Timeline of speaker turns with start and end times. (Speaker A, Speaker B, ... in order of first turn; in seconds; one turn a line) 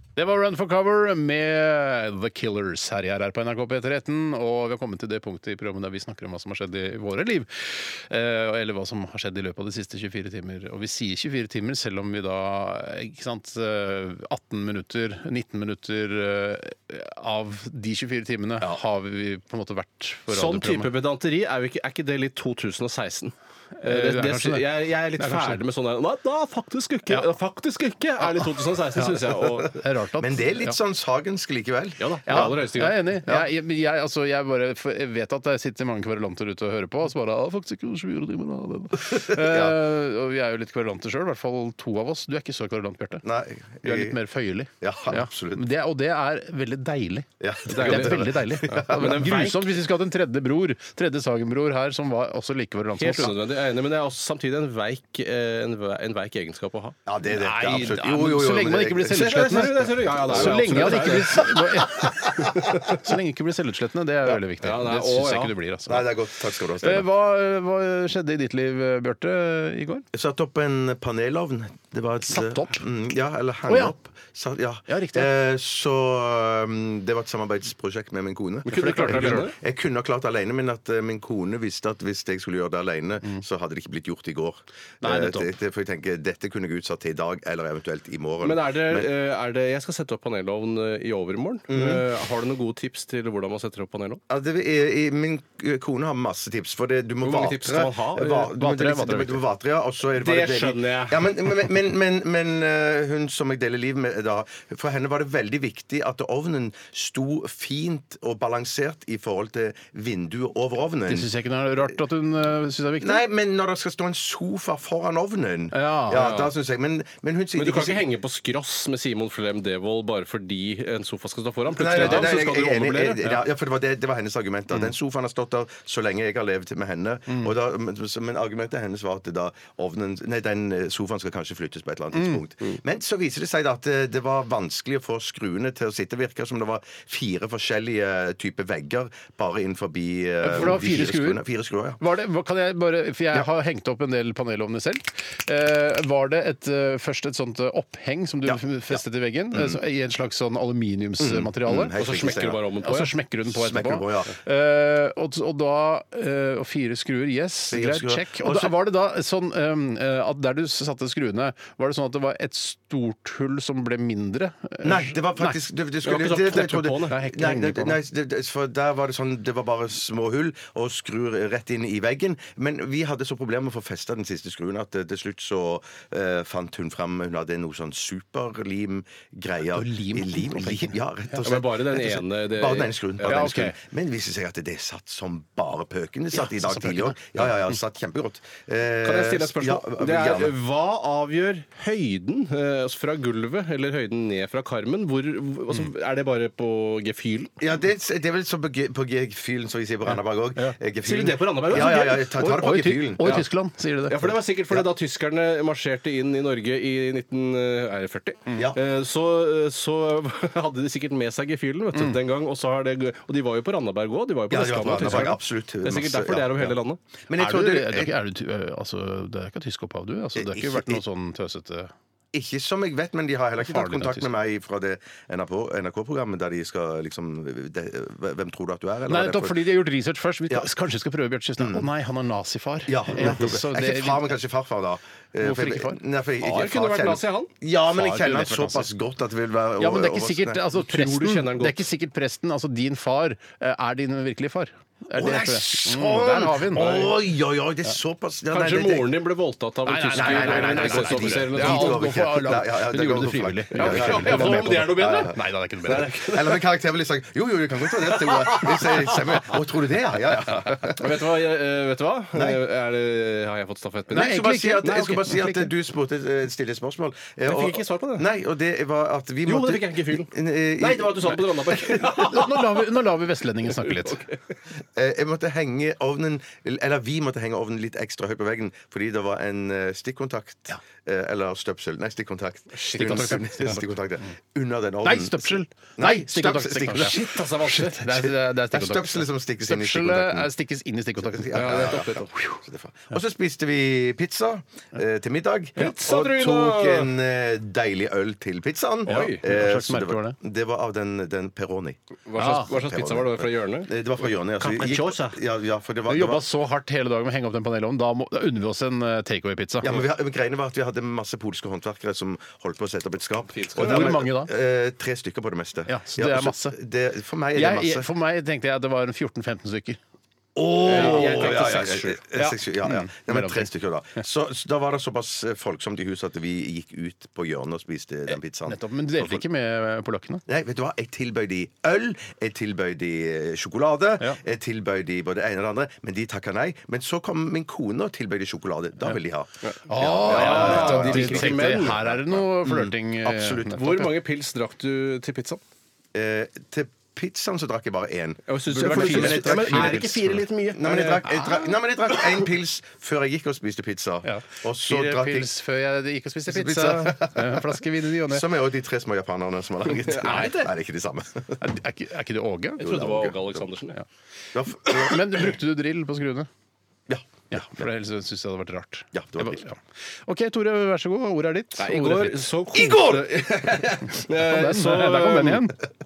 Speaker A: 0.1-20.9
Speaker B: 20.3-29.8
Speaker A: 23.8-25.6
Speaker A: 28.2-30.8
Speaker C: 30.2-32.5
Speaker B: 32.0-33.0
Speaker A: 32.3-43.2
Speaker C: 39.0-39.8
Speaker C: 43.2-44.2
Speaker A: 43.8-53.3
Speaker C: 44.8-45.6
Speaker C: 47.4-49.3
Speaker B: 47.8-48.2
Speaker B: 48.9-49.8
Speaker B: 53.0-57.0
Speaker C: 57.0-62.9
Speaker A: 57.3-66.1
Speaker B: 59.1-61.5
Speaker B: 62.5-63.0
Speaker B: 64.6-65.5
Speaker C: 65.9-67.0
Speaker A: 66.8-70.0
Speaker C: 70.1-89.1
Speaker A: 72.2-72.8
Speaker A: 73.7-73.9
Speaker A: 74.9-75.3
Speaker B: 78.7-79.5
Speaker A: 78.7-79.5
Speaker A: 85.0-85.5
Speaker B: 88.4-94.2
Speaker C: 91.7-92.0
Speaker C: 94.3-111.3
Speaker B: 97.2-98.5
Speaker A: 98.6-99.4
Speaker B: 100.2-101.4
Speaker A: 111.1-113.2
Speaker C: 113.0-118.0
Speaker A: 115.7-116.5
Speaker B: 117.5-123.3
Speaker C: 121.7-142.0
Speaker A: 122.0-122.3
Speaker A: 140.4-141.4
Speaker A: 142.0-152.0
Speaker C: 148.4-149.0
Speaker C: 149.5-149.8
Speaker C: 151.2-152.6
Speaker B: 151.9-153.1
Speaker A: 152.8-165.6
Speaker C: 153.5-154.3
Speaker C: 157.7-158.7
Speaker C: 164.8-190.5
Speaker B: 166.0-167.2
Speaker A: 167.1-168.0
Speaker A: 179.7-181.4
Speaker B: 181.4-183.6
Speaker A: 183.2-183.8
Speaker A: 186.3-187.5
Speaker B: 189.0-197.5
Speaker C: 197.6-203.4
Speaker B: 201.0-202.3
Speaker A: 201.7-204.3
Speaker B: 203.2-203.4
Speaker B: 204.1-217.0
Speaker C: 214.5-216.7
Speaker C: 217.3-218.1
Speaker A: 217.3-221.9
Speaker C: 220.3-221.0
Speaker C: 222.3-229.7
Speaker A: 223.6-224.3
Speaker A: 229.1-234.3
Speaker C: 231.6-231.9
Speaker C: 232.9-240.6
Speaker A: 235.4-236.0
Speaker B: 236.4-237.5
Speaker A: 237.9-238.9
Speaker A: 239.8-247.1
Speaker B: 240.9-241.8
Speaker C: 245.1-249.1
Speaker B: 248.5-252.0
Speaker A: 249.8-256.1
Speaker C: 250.1-261.2
Speaker B: 253.7-255.3
Speaker B: 255.8-256.6
Speaker B: 258.1-259.3
Speaker B: 261.0-265.2
Speaker C: 262.3-262.6
Speaker C: 264.1-272.0
Speaker A: 264.1-265.7
Speaker B: 267.4-268.3
Speaker B: 269.4-272.8
Speaker A: 272.1-274.2
Speaker B: 273.7-274.4
Speaker C: 274.9-290.5
Speaker A: 282.7-283.9
Speaker A: 285.0-292.6
Speaker B: 286.9-288.0
Speaker C: 291.2-306.4
Speaker B: 291.5-292.3
Speaker B: 295.8-297.1
Speaker B: 299.1-299.4
Speaker A: 299.1-300.4
Speaker B: 302.3-303.9
Speaker A: 302.4-302.7
Speaker B: 304.6-305.4
Speaker A: 306.1-310.0
Speaker C: 309.8-318.1
Speaker B: 313.5-314.2
Speaker A: 313.8-314.5
Speaker A: 315.9-316.8
Speaker A: 317.5-320.0
Speaker C: 320.5-329.4
Speaker B: 320.8-322.2
Speaker A: 320.9-321.8
Speaker A: 322.3-323.7
Speaker A: 328.3-330.4
Speaker C: 330.5-344.0
Speaker B: 339.6-342.0
Speaker A: 339.9-344.1
Speaker B: 343.7-345.6
Speaker C: 346.1-350.2
Speaker B: 348.5-351.3
Speaker A: 348.7-350.4
Speaker C: 350.7-355.5
Speaker A: 351.2-351.7
Speaker A: 354.2-358.4
Speaker C: 356.5-357.6
Speaker C: 358.3-361.7
Speaker B: 359.9-360.7
Speaker A: 360.2-360.6
Speaker A: 361.6-362.9
Speaker C: 362.8-363.7
Speaker B: 362.8-364.0
Speaker C: 364.5-365.5
Speaker A: 364.8-366.5
Speaker C: 367.1-367.9
Speaker A: 367.5-372.4
Speaker C: 369.1-369.6
Speaker B: 371.8-375.7
Speaker C: 372.7-374.2
Speaker A: 374.4-375.8